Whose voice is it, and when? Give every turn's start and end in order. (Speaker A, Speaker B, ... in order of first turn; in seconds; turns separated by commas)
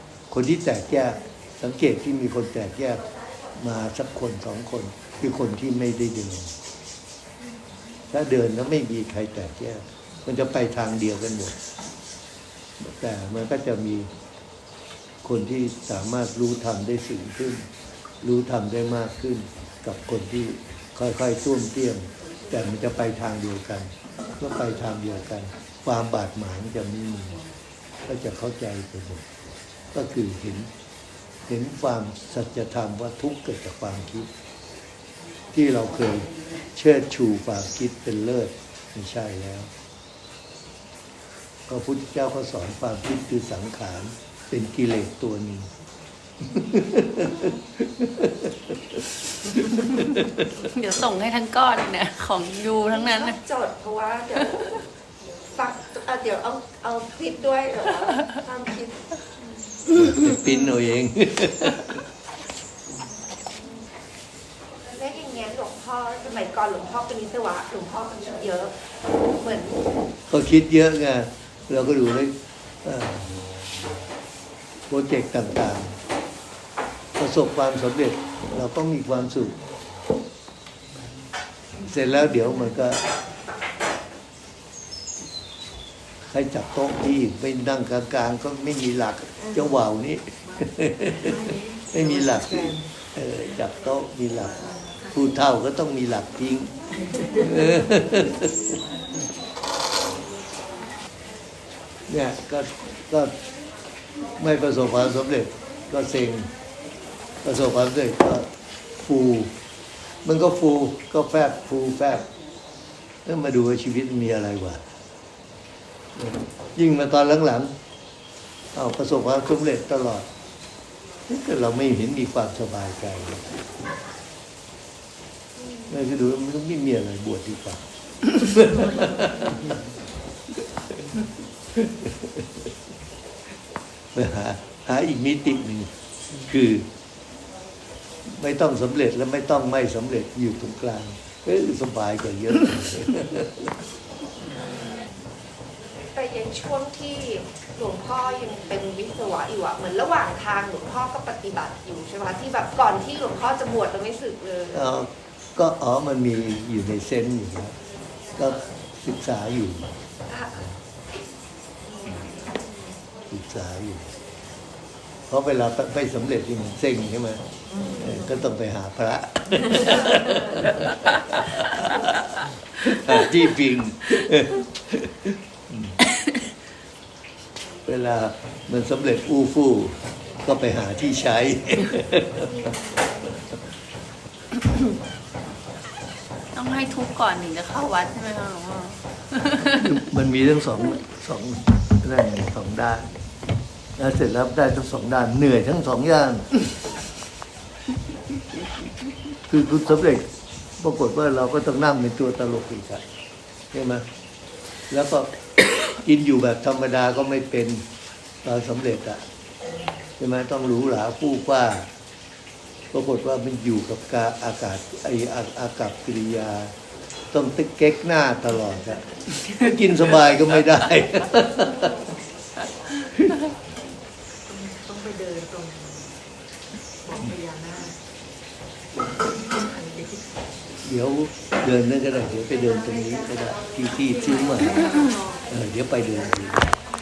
Speaker A: 0.3-3.0, Speaker A: 3.5-6.5, Speaker A: 8.1-11.5, Speaker A: 12.8-14.1, Speaker A: 15.2-17.6, Speaker A: 18.2-27.4, Speaker A: 28.1-29.2, Speaker A: 29.9-30.7, Speaker A: 31.5-34.3, Speaker A: 35.5-39.7, Speaker A: 41.7-45.7, Speaker A: 46.4-50.6, Speaker B: 47.1-47.5, Speaker C: 50.6-53.4, Speaker B: 52.9-54.9, Speaker B: 55.5-59.8, Speaker A: 59.9-62.0, Speaker B: 63.3-63.9, Speaker B: 64.8-68.8, Speaker B: 69.3-69.8, Speaker A: 70.3-73.3, Speaker A: 74.9-76.0, Speaker A: 77.2-79.6, Speaker A: 81.8-83.0, Speaker A: 86.2-91.4, Speaker D: 91.2-92.9, Speaker A: 91.9-96.7, Speaker D: 97.1-98.0, Speaker A: 97.4-98.7, Speaker A: 102.1-103.3, Speaker A: 104.3-106.5, Speaker A: 107.4-109.5, Speaker A: 110.2-112.2, Speaker A: 113.2-114.8, Speaker A: 116.2-117.7, Speaker A: 118.7-120.3, Speaker A: 121.3-123.5, Speaker B: 125.5-126.0, Speaker A: 125.9-129.8, Speaker A: 131.7-132.7, Speaker A: 134.1-136.8, Speaker A: 138.2-143.7, Speaker B: 144.4-145.2, Speaker B: 146.1-154.9, Speaker A: 154.7-157.7, Speaker A: 158.4-159.9, Speaker B: 160.3-160.6, Speaker B: 161.8-162.9, Speaker A: 163.3-164.1, Speaker A: 165.3-167.4, Speaker D: 167.7-168.1, Speaker A: 168.0-172.1, Speaker A: 172.8-176.0, Speaker A: 177.8-182.7, Speaker B: 182.4-183.2, Speaker C: 186.5-190.0, Speaker A: 189.8-193.1, Speaker A: 194.0-196.6, Speaker A: 199.5-200.3, Speaker A: 200.8-203.0, Speaker A: 203.7-204.0, Speaker A: 204.9-205.3, Speaker A: 205.9-207.8, Speaker A: 208.4-209.2, Speaker A: 210.2-211.9, Speaker A: 212.9-216.7, Speaker A: 217.3-222.0, Speaker D: 224.5-226.2, Speaker D: 227.0-228.0, Speaker D: 229.2-230.3, Speaker A: 230.8-234.9, Speaker D: 234.4-235.4, Speaker A: 235.5-236.7